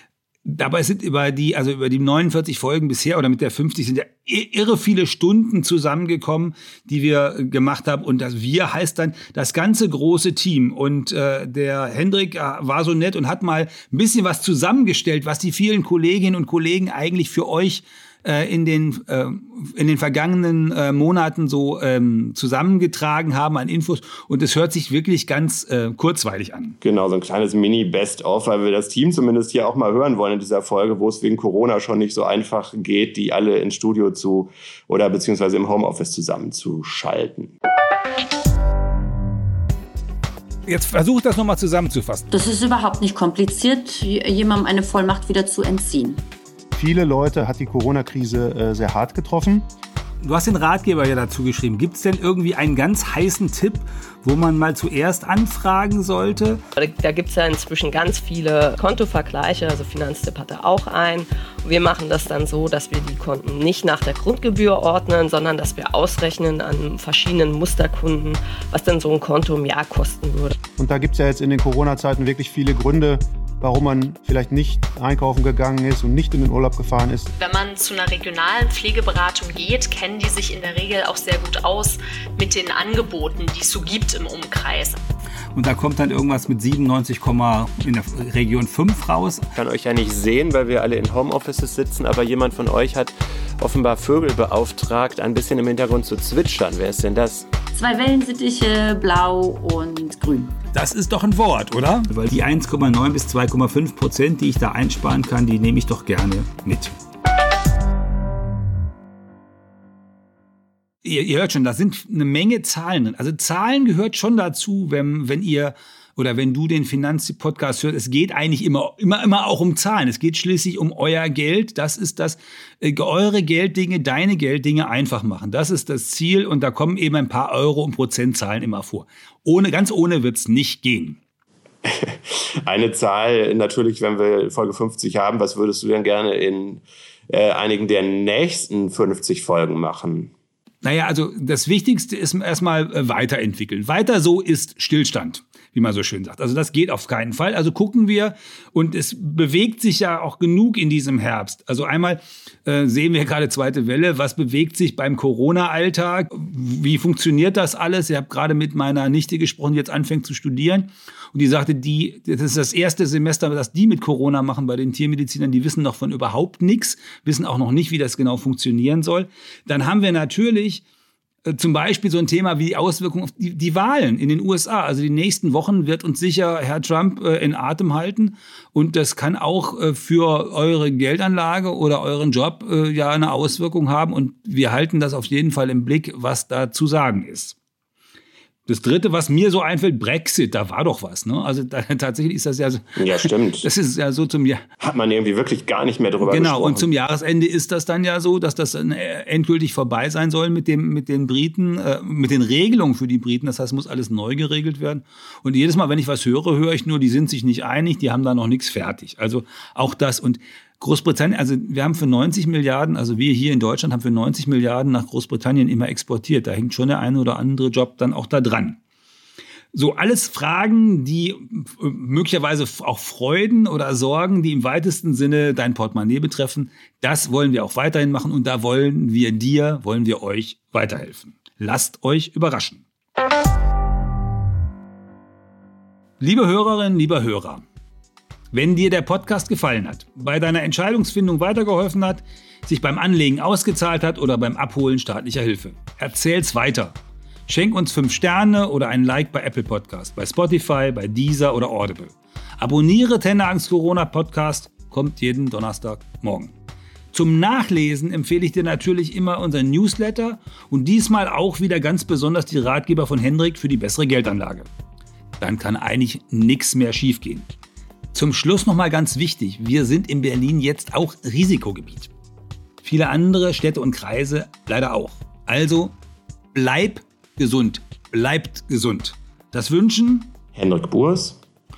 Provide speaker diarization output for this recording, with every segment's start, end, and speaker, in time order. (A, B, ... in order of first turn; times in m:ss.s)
0:00.4-0:26.8 A
0:26.8-0:37.6 B
0:40.7-0:42.3 A
0:42.3-0:46.2 C
0:46.7-0:49.7 D
0:50.2-0:56.6 A
0:56.8-1:10.6 E
1:10.8-1:17.3 D
1:17.4-1:25.0 F
1:25.6-1:29.5 A
1:29.6-1:37.5 B
1:37.7-1:40.6 C
1:40.7-1:46.9 A
1:51.0-2:11.2 A
2:11.8-2:20.3 B
2:20.8-2:50.8 A
2:51.5-3:07.6 A
3:08.7-3:14.6 A
3:13.0-3:13.7 B
3:14.8-3:16.9 B
3:16.2-3:38.8 A
3:39.7-3:52.8 A
3:56.2-3:57.6 A
3:58.5-4:07.0 A
4:07.5-4:16.5 A
4:17.1-4:24.7 A
4:25.4-4:27.5 A
4:28.1-4:32.1 A
4:32.8-4:35.9 A
4:36.5-4:40.3 A
4:40.5-4:41.4 B